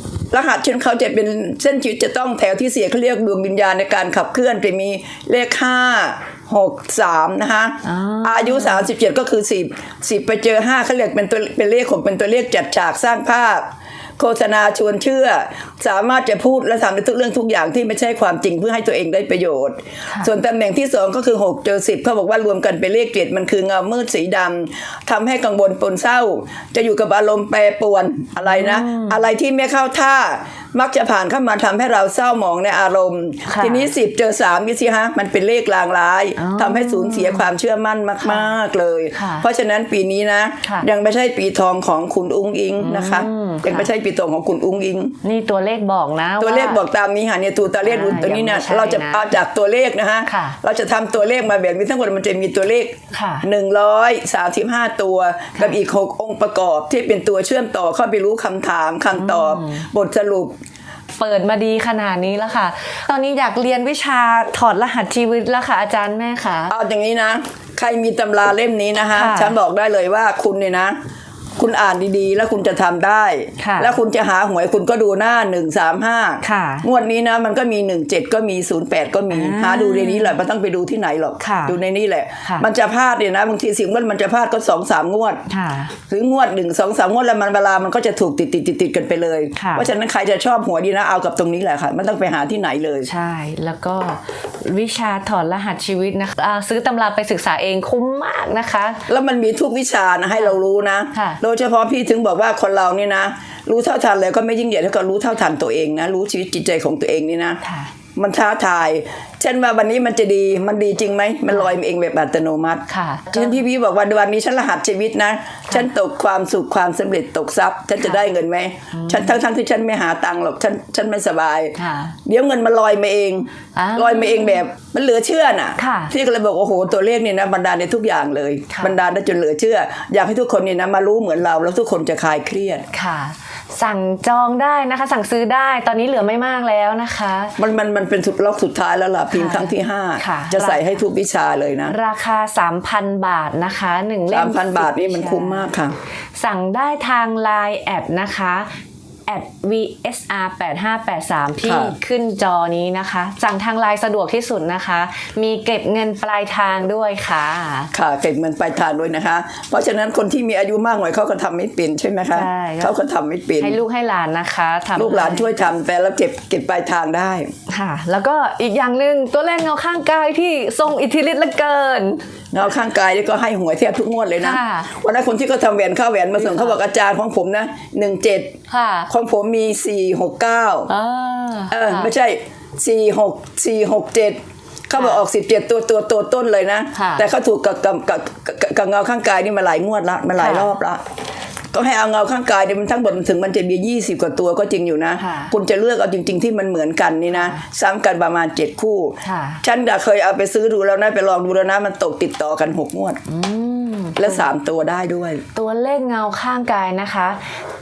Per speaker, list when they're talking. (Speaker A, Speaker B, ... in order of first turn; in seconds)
Speaker A: 0.3-13.7, 14.2-45.2, 46.4-60.5, 66.7-71.0, 71.6-85.4, 86.1-93.1, 99.1-107.6, 108.2-132.9, 137.6-142.0, 144.3-146.0, 151.6-152.0, 157.9-163.8, 165.0-167.5, 172.5-178.5, 179.1-180.9, 181.7-184.4, 184.9-191.0, 191.7-203.2, 204.2-205.4
Speaker B: 7.8-8.9, 28.4-29.2, 33.5-33.9, 36.4-37.5, 38.2-38.5, 39.1-39.5, 42.8-43.9, 45.2-46.8, 47.8-49.3, 50.3-50.6, 53.1-53.5, 59.1-59.9, 61.2-66.7, 69.1-69.5, 73.6-74.0, 76.4-76.9, 79.3-80.4, 81.4-81.8, 85.5-85.9, 89.6-89.9, 93.0-99.0, 101.1-101.4, 107.6-107.9, 112.9-113.6, 118.9-119.4, 121.8-122.2, 123.8-124.6, 125.8-126.1, 132.9-137.6, 139.3-141.0, 141.9-145.7, 146.4-148.7, 149.3-157.9, 162.3-162.9, 163.6-165.5, 167.7-172.2, 174.4-174.9, 176.4-176.7, 178.7-179.1, 180.9-182.1, 184.9-185.2, 186.9-187.3, 190.4-190.7, 195.2-195.5, 197.3-197.6, 199.2-199.6, 203.3-204.5, 205.6-207.5